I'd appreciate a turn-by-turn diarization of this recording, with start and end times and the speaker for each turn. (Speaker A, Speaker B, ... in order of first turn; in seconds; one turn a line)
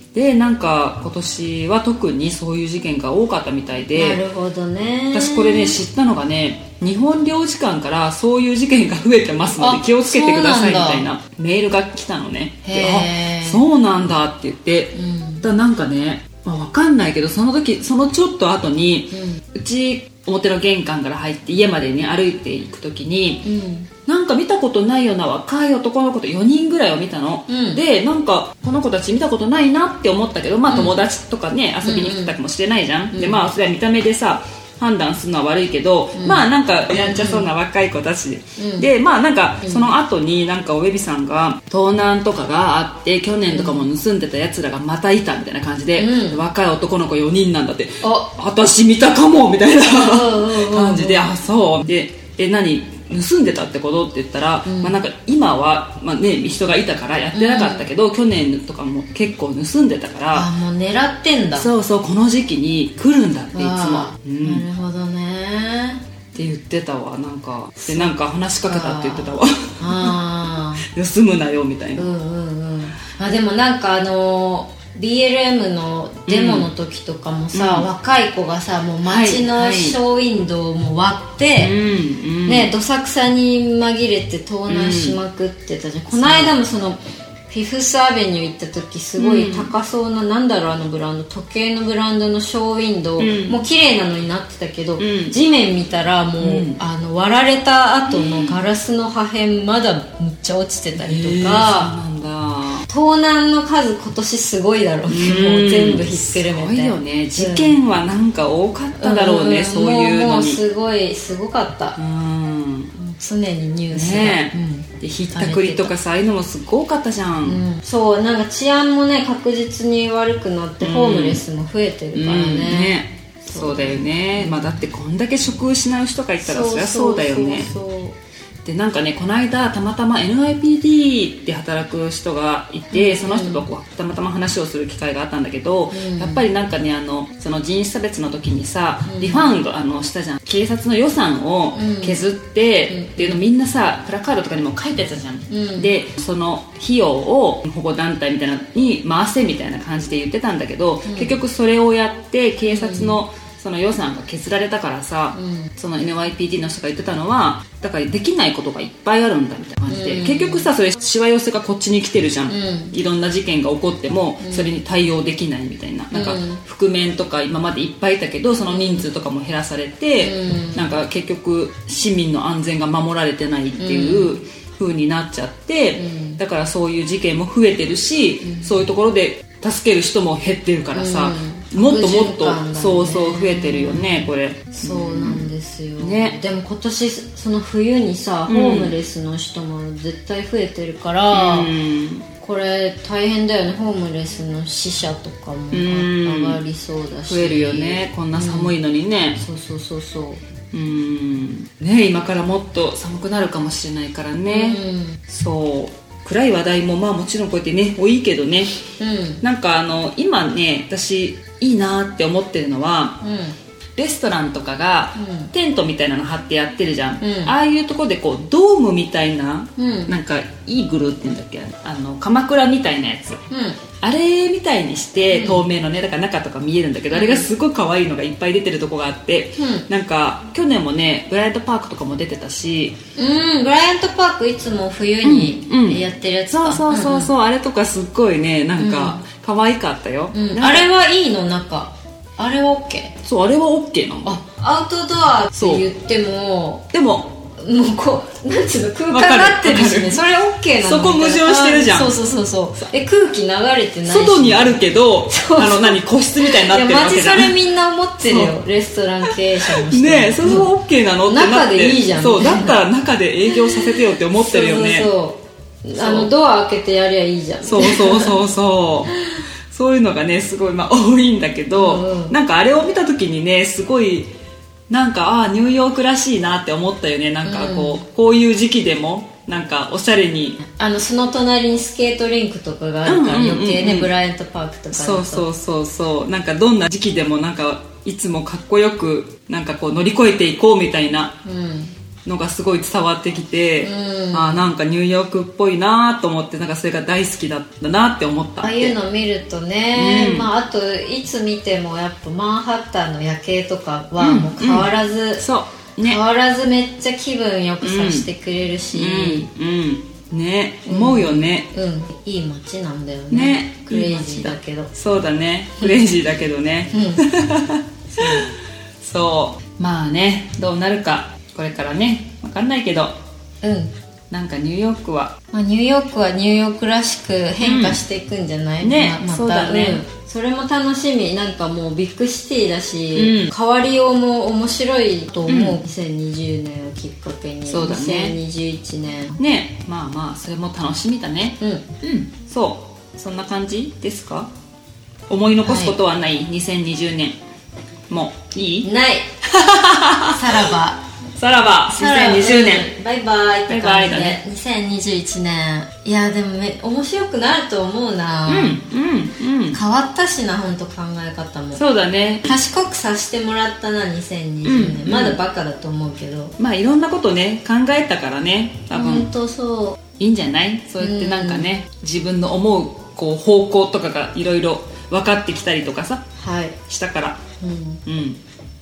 Speaker A: 0.1-4.2
Speaker B: 3.9-5.8
Speaker A: 5.1-23.5
Speaker B: 9.6-11.1
Speaker B: 12.6-13.6
Speaker B: 14.9-15.4
Speaker B: 19.1-19.4
Speaker B: 23.4-23.9
Speaker A: 24.1-60.5
Speaker B: 27.5-27.8
Speaker B: 30.7-31.0
Speaker B: 31.8-32.4
Speaker B: 33.1-33.4
Speaker B: 36.1-36.4
Speaker B: 37.0-37.5
Speaker B: 38.6-38.9
Speaker B: 39.6-39.9
Speaker B: 43.5-43.9
Speaker B: 46.0-46.4
Speaker B: 48.0-48.3
Speaker B: 49.8-51.3
Speaker B: 54.6-55.0
Speaker B: 57.3-57.9
Speaker B: 60.3-61.7
Speaker A: 61.5-64.6
Speaker B: 63.5-66.0
Speaker A: 66.3-70.1
Speaker B: 67.8-68.1
Speaker B: 68.7-70.8
Speaker A: 70.8-72.1
Speaker B: 72.0-81.7
Speaker A: 76.3-76.7
Speaker A: 77.5-77.9
Speaker A: 79.0-80.0
Speaker A: 81.6-82.7
Speaker B: 82.5-101.9
Speaker A: 84.7-85.2
Speaker A: 86.1-86.5
Speaker A: 89.2-89.7
Speaker A: 93.2-93.6
Speaker A: 95.0-95.4
Speaker A: 96.4-96.8
Speaker A: 98.1-98.6
Speaker A: 101.0-102.9
Speaker B: 102.9-107.8
Speaker A: 105.1-110.6
Speaker B: 109.0-112.0
Speaker A: 112.0-112.9
Speaker B: 112.9-115.9
Speaker A: 113.9-117.6
Speaker B: 117.4-124.8
Speaker A: 120.8-121.4
Speaker A: 122.1-127.7
Speaker B: 126.4-128.2
Speaker A: 128.6-185.5
Speaker B: 132.9-133.6
Speaker B: 135.9-136.4
Speaker B: 139.1-139.6
Speaker B: 141.7-142.2
Speaker B: 142.9-143.4
Speaker B: 145.5-145.9
Speaker B: 151.1-151.4
Speaker B: 152.7-153.2
Speaker B: 155.3-155.7
Speaker B: 159.9-160.7
Speaker B: 162.5-162.9
Speaker B: 164.4-164.8
Speaker B: 166.1-166.6
Speaker B: 168.7-169.1
Speaker B: 170.2-170.9
Speaker B: 173.8-174.4
Speaker B: 175.9-176.4
Speaker B: 178.4-178.7
Speaker B: 180.9-191.7
Speaker A: 186.0-186.4
Speaker A: 188.5-188.9
Speaker A: 191.3-192.3
Speaker B: 192.4-198.7
Speaker A: 195.7-196.6
Speaker A: 197.3-199.4
Speaker B: 199.4-200.4
Speaker A: 200.7-208.8
Speaker B: 204.5-205.2
Speaker B: 209.0-209.4
Speaker A: 209.4-213.2
Speaker B: 213.2-213.6
Speaker A: 214.0-223.4
Speaker B: 215.2-215.5
Speaker B: 217.2-217.6
Speaker B: 219.8-220.2
Speaker B: 223.5-223.8
Speaker A: 224.0-233.0
Speaker B: 225.3-225.6
Speaker B: 227.1-227.5
Speaker B: 229.6-229.9
Speaker B: 233.2-237.3
Speaker A: 235.2-240.9
Speaker B: 238.8-239.2
Speaker B: 240.3-243.2
Speaker A: 243.2-244.4
Speaker B: 244.2-246.8
Speaker A: 245.6-245.9
Speaker A: 246.9-247.4
Speaker B: 247.5-260.7
Speaker A: 249.1-250.3
Speaker A: 250.8-252.2
Speaker A: 254.1-257.6
Speaker A: 258.2-258.6
Speaker A: 259.3-265.1
Speaker B: 261.3-262.8
Speaker B: 263.6-268.4
Speaker A: 265.9-266.3
Speaker A: 267.6-269.2
Speaker A: 269.7-274.3
Speaker B: 271.7-272.4
Speaker A: 274.9-280.6
Speaker B: 277.4-278.0
Speaker B: 280.7-285.4
Speaker A: 283.1-284.1
Speaker A: 284.9-291.4
Speaker B: 291.4-291.9
Speaker A: 292.2-299.0
Speaker B: 293.8-294.6
Speaker B: 298.6-305.4
Speaker A: 299.9-300.5
Speaker A: 304.2-306.2
Speaker B: 306.0-309.5
Speaker A: 307.8-308.3
Speaker A: 308.9-311.7
Speaker B: 310.9-314.9
Speaker A: 313.3-318.5
Speaker B: 316.9-317.3
Speaker B: 318.1-318.5
Speaker A: 319.0-323.1
Speaker B: 323.6-323.9
Speaker A: 324.3-325.4
Speaker B: 325.5-339.4
Speaker A: 327.6-328.0
Speaker A: 328.8-330.0
Speaker A: 333.1-333.5
Speaker A: 335.5-335.8
Speaker A: 337.7-338.4
Speaker A: 339.4-344.5
Speaker B: 341.6-341.8
Speaker A: 345.3-347.4
Speaker B: 345.6-345.9
Speaker A: 348.1-348.9
Speaker B: 348.8-349.2
Speaker A: 349.4-350.7
Speaker B: 350.3-351.0
Speaker A: 351.4-352.9
Speaker B: 351.9-358.8
Speaker A: 353.7-354.4
Speaker A: 358.4-359.8
Speaker B: 359.7-361.8
Speaker A: 361.7-362.6
Speaker B: 362.4-366.6
Speaker A: 364.6-365.4
Speaker A: 366.6-369.3
Speaker B: 368.9-370.0
Speaker A: 370.2-376.3
Speaker B: 371.0-371.7
Speaker B: 376.4-376.8
Speaker A: 376.9-377.4
Speaker B: 377.6-378.0
Speaker A: 378.1-378.4